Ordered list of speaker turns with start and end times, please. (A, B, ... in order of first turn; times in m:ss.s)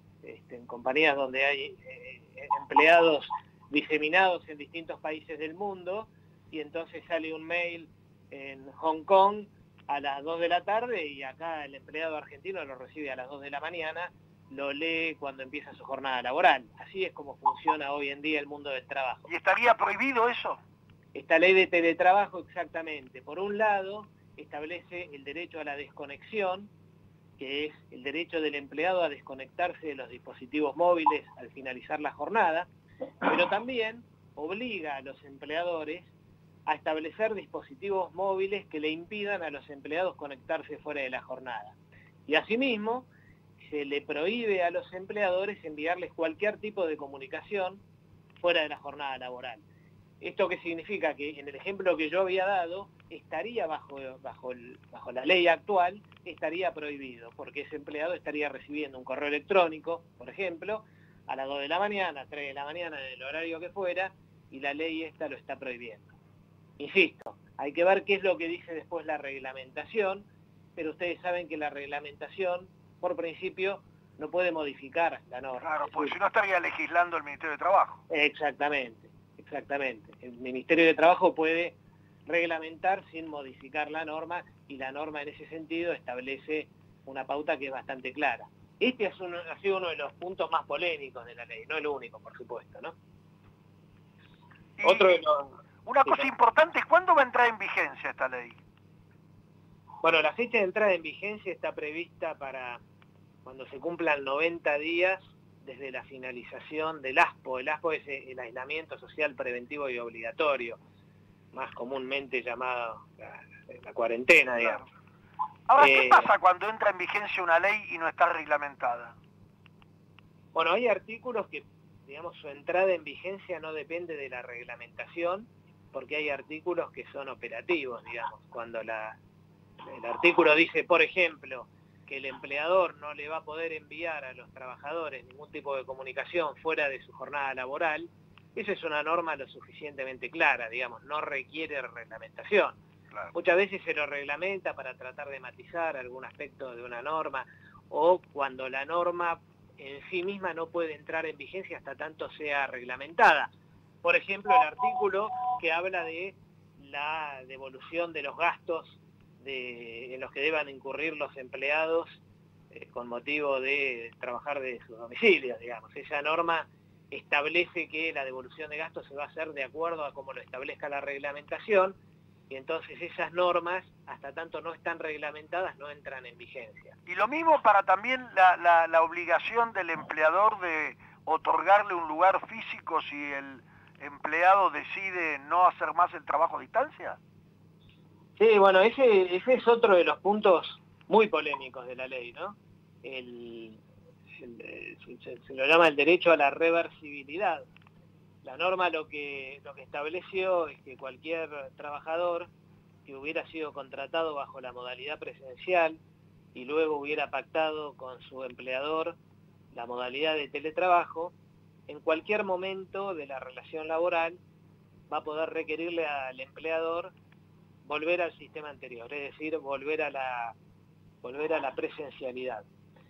0:00.2-0:19.2 A
0:19.3-0:20.6 B
0:21.1-0:26.7 A
0:27.4-0:32.7 A
0:33.2-0:36.1 A
0:36.6-0:41.7 A
0:42.3-0:43.1 A
0:43.6-0:47.8 A
0:48.4-0:49.6 A
0:50.2-1:06.1 A
1:06.8-1:16.1 A
1:15.6-1:18.0 B
1:18.1-1:21.8 A
1:22.3-1:32.9 A
1:34.8-1:35.2 B
1:34.8-1:35.5 A
1:35.8-1:38.6 B
1:40.0-1:42.8 A
1:43.4-1:50.8 A
1:51.5-1:54.8 A
1:55.7-1:59.1 B
1:55.8-1:56.3 A
2:00.5-2:09.2 A
2:09.8-2:22.8 A
2:23.3-2:33.5 A
2:34.0-2:42.2 A
2:42.7-2:52.0 A
2:52.5-2:56.9 A
2:57.1-3:07.2 B
3:08.4-3:13.8 A
3:14.3-3:17.6 A
3:18.4-3:22.5 A
3:23.0-3:26.0 A
3:26.5-3:29.2 A
3:29.7-3:31.3 A
3:31.9-3:34.4 A
3:35.1-3:37.1 A
3:37.8-3:40.6 A
3:41.2-3:42.6 A